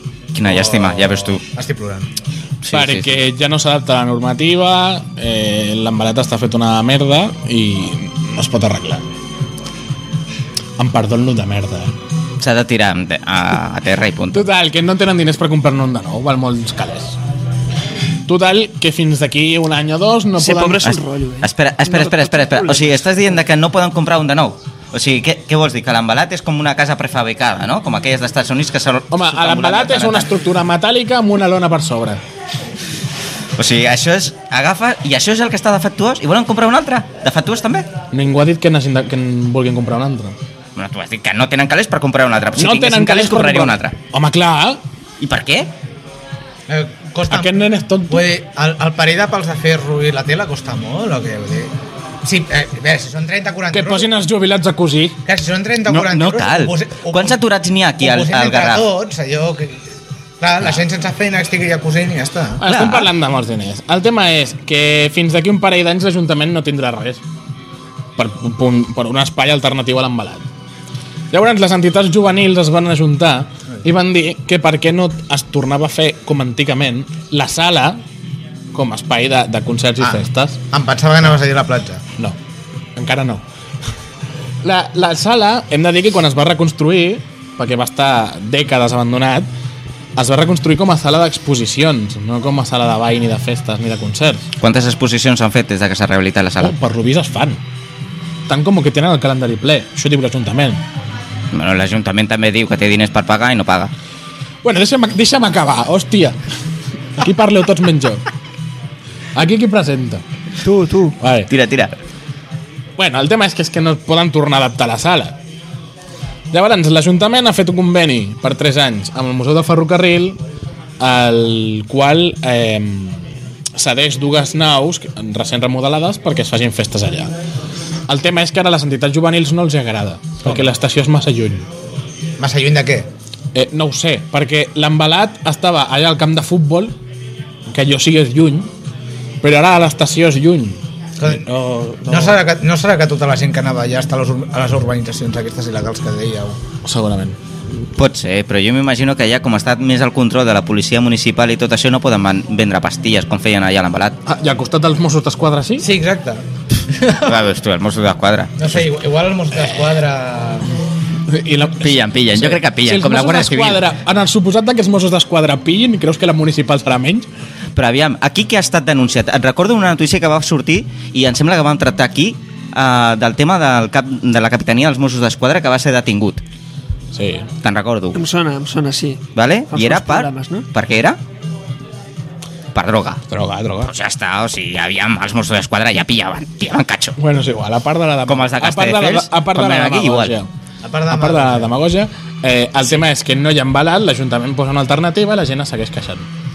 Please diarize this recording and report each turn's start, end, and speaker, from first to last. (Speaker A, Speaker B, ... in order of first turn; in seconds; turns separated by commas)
Speaker A: 0.3-1.4, Speaker B: 0.5-2.1, Speaker A: 2.6-3.2, Speaker C: 2.7-9.0, Speaker C: 10.8-11.9, Speaker A: 12.4-14.4, Speaker C: 14.3-17.1, Speaker C: 18.2-20.9, Speaker D: 20.4-23.3, Speaker A: 20.8-30.3, Speaker C: 29.1-32.2, Speaker A: 33.6-37.9, Speaker C: 38.1-40.3, Speaker A: 40.8-44.0, Speaker C: 42.6-44.8, Speaker A: 45.2-45.7, Speaker B: 46.7-54.1, Speaker C: 47.3-48.2, Speaker C: 53.7-55.2, Speaker B: 55.2-57.4, Speaker A: 55.9-58.9, Speaker B: 58.0-59.8, Speaker B: 60.4-62.6, Speaker C: 62.6-67.2, Speaker A: 62.6-63.1, Speaker C: 68.2-70.4, Speaker C: 71.3-78.0, Speaker C: 78.7-80.6, Speaker B: 80.0-82.0, Speaker C: 83.0-83.4, Speaker C: 84.6-89.5, Speaker C: 90.2-94.4, Speaker A: 94.6-96.8, Speaker C: 96.6-97.6, Speaker C: 98.5-100.8, Speaker A: 101.5-103.9, Speaker C: 104.6-106.4, Speaker C: 107.2-108.2, Speaker C: 109.3-110.2, Speaker D: 110.6-111.2, Speaker C: 111.2-111.5, Speaker A: 111.5-112.0, Speaker C: 113.0-115.4, Speaker C: 116.5-120.4, Speaker C: 121.0-127.3, Speaker C: 128.1-131.7, Speaker B: 130.4-130.7, Speaker B: 132.4-133.1, Speaker C: 133.5-136.9, Speaker C: 137.7-138.7, Speaker C: 139.4-142.4, Speaker B: 141.2-141.5, Speaker B: 142.1-146.6, Speaker C: 146.8-147.4, Speaker A: 147.9-154.2, Speaker C: 154.3-155.9, Speaker B: 155.8-157.4, Speaker A: 157.1-158.8, Speaker B: 158.6-160.7, Speaker C: 161.3-167.3, Speaker A: 161.8-163.8, Speaker A: 167.8-176.4, Speaker C: 177.1-177.5, Speaker A: 177.6-178.2, Speaker D: 178.1-180.7, Speaker A: 179.3-181.2, Speaker A: 182.7-183.2, Speaker C: 183.3-183.9, Speaker A: 183.8-187.2, Speaker C: 187.2-190.5, Speaker A: 188.2-190.3, Speaker B: 190.8-191.7, Speaker C: 191.1-196.3